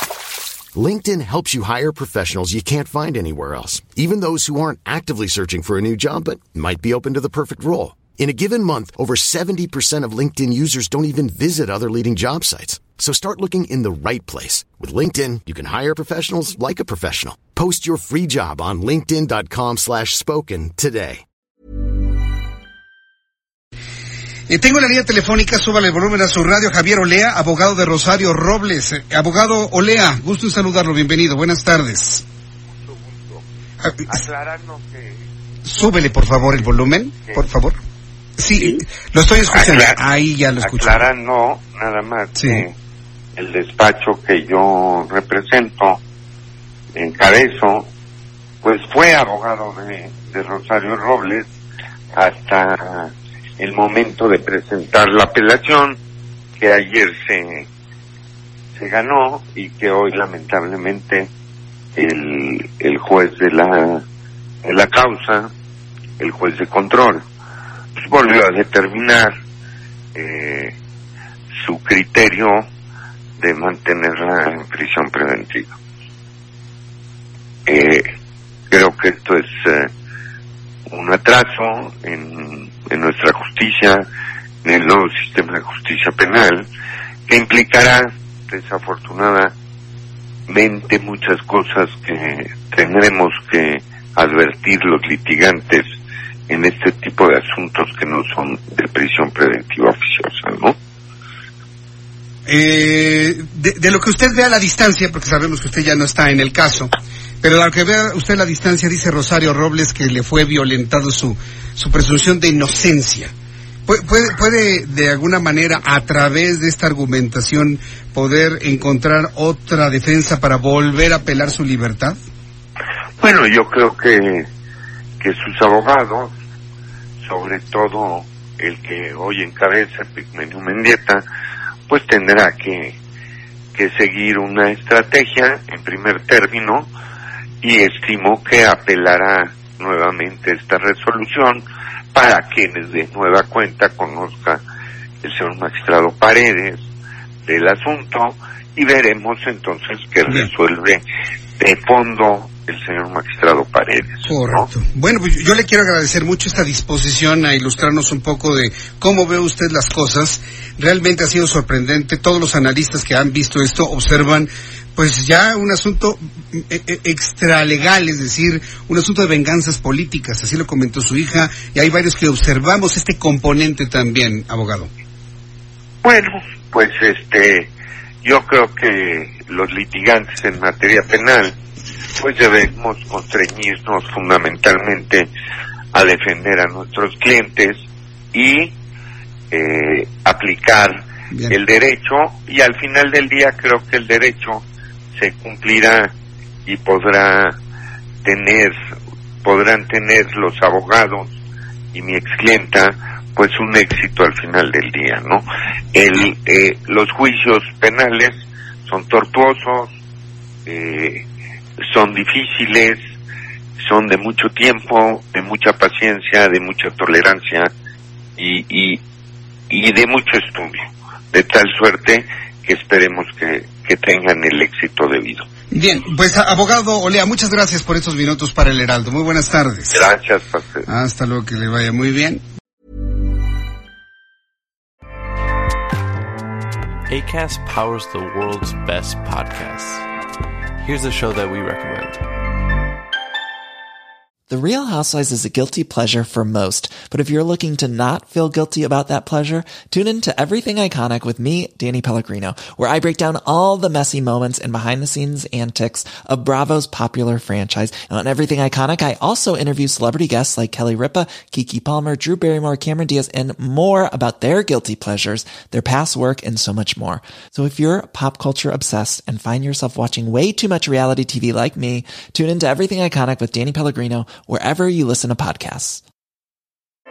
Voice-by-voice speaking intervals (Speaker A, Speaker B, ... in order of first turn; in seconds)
Speaker A: 0.8-21.2
Speaker B: 24.5-32.2, 33.9-34.2, 35.7-37.8, 38.4-41.1, 42.4-42.6, 102.5-113.3, 113.9-122.2, 154.2-174.9, 191.3-191.6, 225.7-230.1, 230.9-232.4
Speaker C: 32.8-33.4, 34.1-35.3, 37.2-37.5, 39.5-40.0, 40.6-42.7, 43.4-46.0, 47.0-47.9, 48.6-51.5, 52.1-56.0, 56.6-57.7, 58.8-61.3, 62.0-64.0, 64.6-65.5, 66.2-67.2, 68.0-69.3, 70.2-70.8, 71.6-72.7, 73.4-75.8, 77.7-78.1, 78.7-79.9, 80.9-84.0, 84.6-86.7, 87.3-89.5, 90.5-95.9, 96.5-100.8, 123.2-124.5, 125.2-126.3, 127.2-131.2, 131.9-133.0, 133.8-136.9, 137.6-141.6, 142.1-144.6, 145.2-146.9, 147.5-151.0, 151.6-154.7, 176.0-177.7, 178.2-181.6, 182.2-185.3, 185.9-188.7, 189.5-194.7, 195.2-196.1, 196.7-197.6, 198.2-198.8, 199.4-201.4, 201.9-209.9, 210.7-211.2, 211.8-213.0, 213.8-217.7, 218.4-219.0, 219.7-225.5, 229.9-230.9
Speaker D: 237.1-240.1, 240.8-242.2
Speaker E: 244.5-276.0